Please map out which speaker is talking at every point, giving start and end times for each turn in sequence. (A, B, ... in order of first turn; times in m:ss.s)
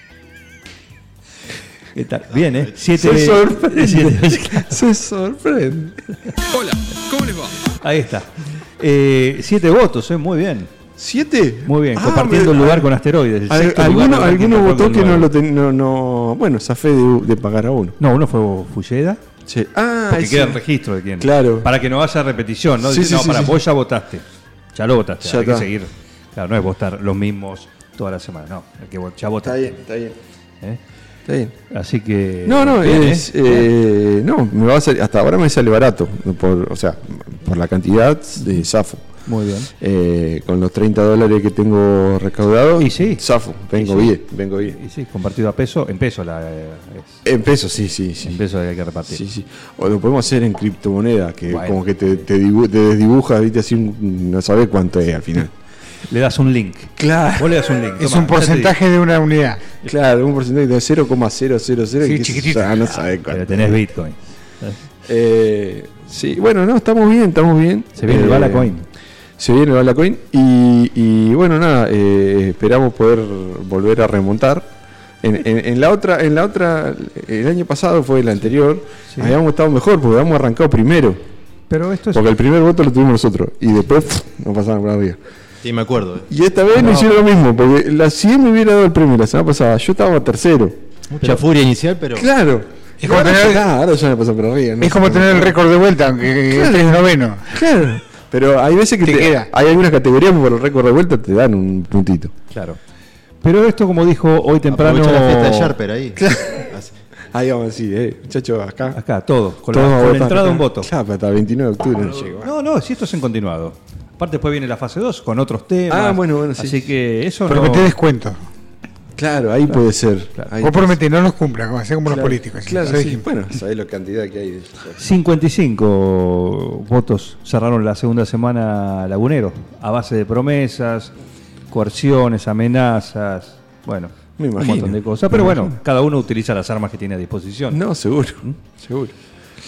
0:01.9-0:04.8 A
0:02.9-0:07.6 B
0:07.8-0:10.7 A
0:11.0-0:12.9 B
0:11.6-0:15.3 A
0:13.5-0:18.0 B
0:18.0-0:19.2 A
0:19.4-0:20.6 B
0:20.1-0:29.7 A
0:21.2-0:21.7 B
0:22.8-0:23.6 B
0:25.2-0:25.7 B
0:29.4-0:30.2 B
0:31.3-0:31.5 B
0:31.7-0:33.7 A
0:32.4-0:39.0 B
0:39.2-0:39.7 A
0:39.8-0:44.8 B
0:42.8-0:43.2 A
0:43.7-0:47.2 A
0:47.2-0:48.4 B
0:48.2-0:49.2 A
0:49.0-0:55.5 B
0:51.5-0:51.8 A
0:56.1-0:58.8 A
0:57.0-0:57.7 B
0:58.0-0:59.6 C
0:59.8-1:03.8 B
1:02.0-1:02.7 C
1:03.3-1:04.8 A
1:05.0-1:08.8 B
1:08.0-1:08.8 A
1:09.4-1:14.7 B
1:15.2-1:21.2 B
1:19.1-1:19.4 A
1:21.7-1:22.3 A
1:22.1-1:25.2 B
1:25.6-1:26.3 D
1:26.3-1:30.8 B
1:31.1-1:32.3 D
1:32.1-1:35.6 B
1:33.0-1:33.6 C
1:34.8-1:37.6 C
1:36.5-1:42.3 B
1:39.0-1:39.5 C
1:42.5-1:42.8 A
1:43.4-1:45.7 A
1:44.7-1:46.2 D
1:46.2-1:46.7 B
1:47.3-1:49.0 B
1:48.9-1:50.9 A
1:49.7-1:52.5 B
1:52.3-1:57.9 A
1:55.9-1:56.9 B
1:57.5-1:58.4 C
1:59.2-2:01.0 B
2:00.6-2:03.2 C
2:02.1-2:05.0 B
2:05.0-2:11.1 A
2:11.7-2:17.8 A
2:14.4-2:15.8 B
2:17.7-2:19.1 B